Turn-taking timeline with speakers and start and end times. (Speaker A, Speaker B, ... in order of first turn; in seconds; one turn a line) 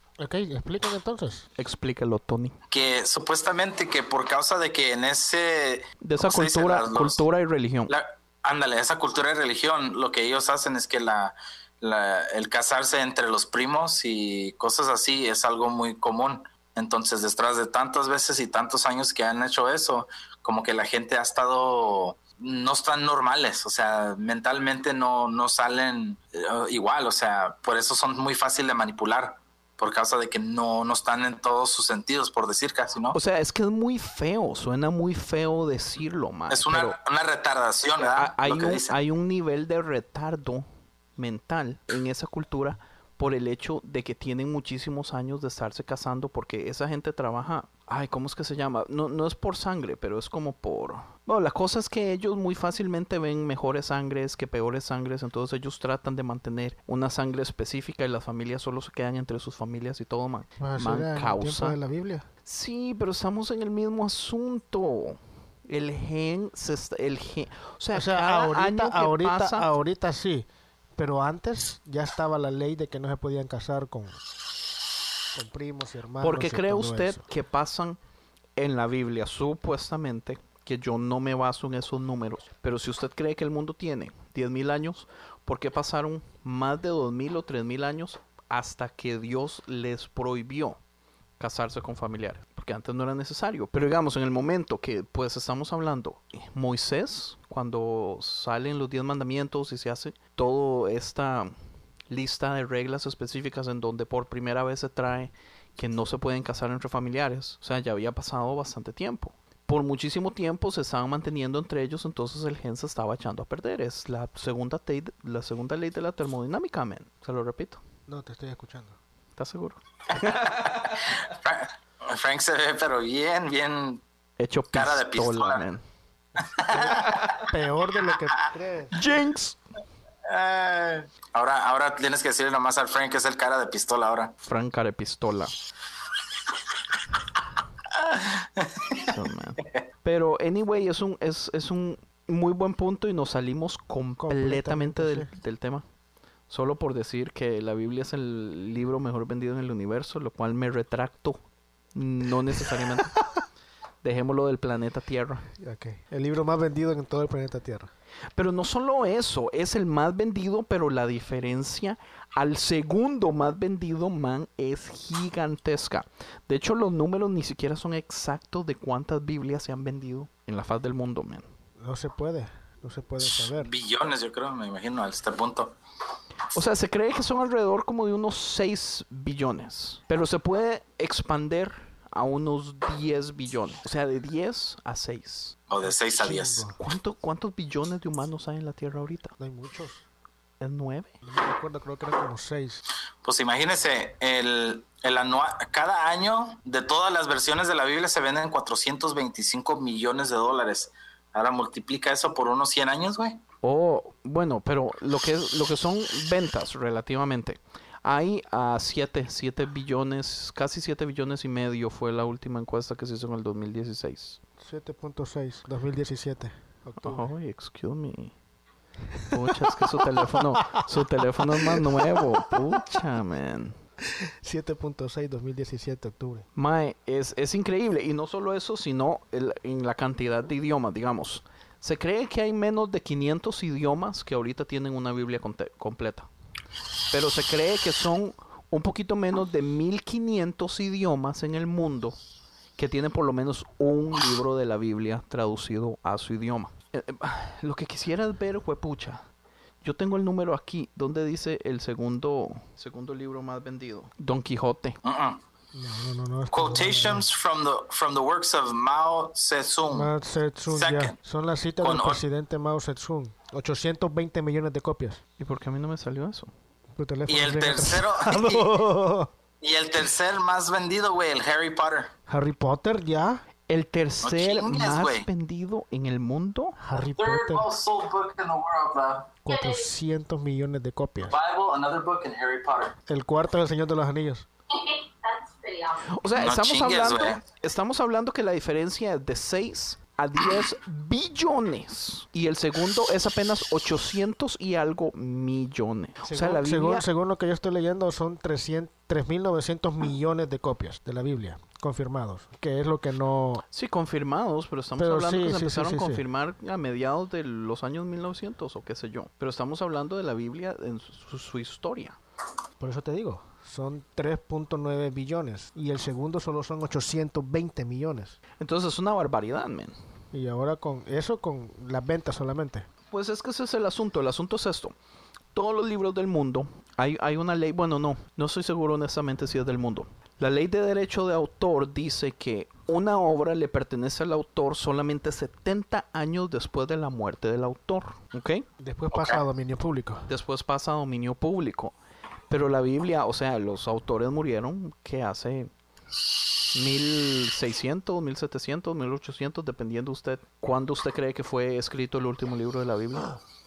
Speaker A: 0.2-1.5
Speaker B: 1.6-2.6
Speaker C: 2.7-7.2
Speaker B: 6.0-7.9
Speaker C: 7.9-33.2
Speaker B: 33.1-37.0
Speaker C: 36.5-38.9
Speaker B: 38.2-40.6
Speaker B: 41.2-61.8
Speaker A: 60.6-62.2
Speaker B: 62.5-69.8
Speaker A: 67.9-74.2
Speaker A: 75.3-77.2
Speaker B: 76.2-78.0
Speaker B: 78.6-90.8
Speaker B: 91.4-101.5
Speaker B: 102.1-117.8
Speaker A: 118.1-119.0
Speaker B: 119.4-120.8
Speaker C: 121.2-124.0
Speaker B: 124.4-125.8
Speaker C: 124.7-125.7
Speaker C: 126.6-127.3
Speaker B: 126.7-127.4
Speaker A: 126.7-128.9
Speaker B: 128.9-129.6
Speaker C: 130.3-134.3
Speaker B: 134.4-135.5
Speaker C: 138.1-139.0
Speaker B: 139.0-145.8
Speaker A: 144.2-145.3
Speaker B: 146.5-151.4
Speaker B: 151.9-153.1
Speaker B: 154.0-155.5
Speaker A: 155.6-157.9
Speaker B: 158.3-171.5
Speaker A: 171.8-173.7
Speaker C: 173.4-175.7
Speaker B: 176.5-185.6
Speaker C: 185.7-186.7
Speaker A: 185.8-186.8
Speaker B: 186.8-189.3
Speaker A: 189.4-190.1
Speaker B: 190.6-191.1
Speaker A: 191.2-192.8
Speaker C: 193.2-203.4
Speaker B: 203.6-214.4
Speaker A: 214.6-217.3
Speaker B: 217.0-218.3
Speaker A: 219.1-220.4
Speaker B: 219.3-223.8
Speaker A: 221.6-222.2
Speaker A: 224.2-226.4
Speaker B: 226.5-236.3
Speaker B: 237.1-242.2
Speaker B: 242.8-249.2
Speaker B: 249.8-255.0
Speaker C: 255.0-255.4
Speaker A: 255.7-257.3
Speaker C: 256.5-260.1
Speaker A: 259.9-265.2
Speaker C: 260.7-261.1
Speaker C: 261.8-262.2
Speaker B: 265.4-266.5
Speaker A: 266.9-269.3
Speaker C: 267.3-268.8
Speaker C: 269.6-272.1
Speaker A: 272.3-273.4
Speaker B: 273.7-276.8
Speaker C: 274.2-275.3
Speaker A: 276.8-277.7
Speaker C: 277.0-279.7
Speaker A: 279.4-281.4
Speaker C: 281.3-282.9
Speaker A: 283.1-284.5
Speaker C: 284.7-287.4
Speaker B: 286.1-297.1
Speaker A: 296.2-303.6
Speaker B: 303.7-312.2
Speaker A: 305.0-306.2
Speaker A: 312.8-318.4
Speaker B: 318.6-319.9
Speaker A: 320.3-322.9
Speaker B: 323.1-324.9
Speaker B: 325.5-338.6
Speaker A: 338.8-340.3
Speaker B: 340.3-341.9
Speaker B: 342.5-345.7
Speaker B: 346.7-353.4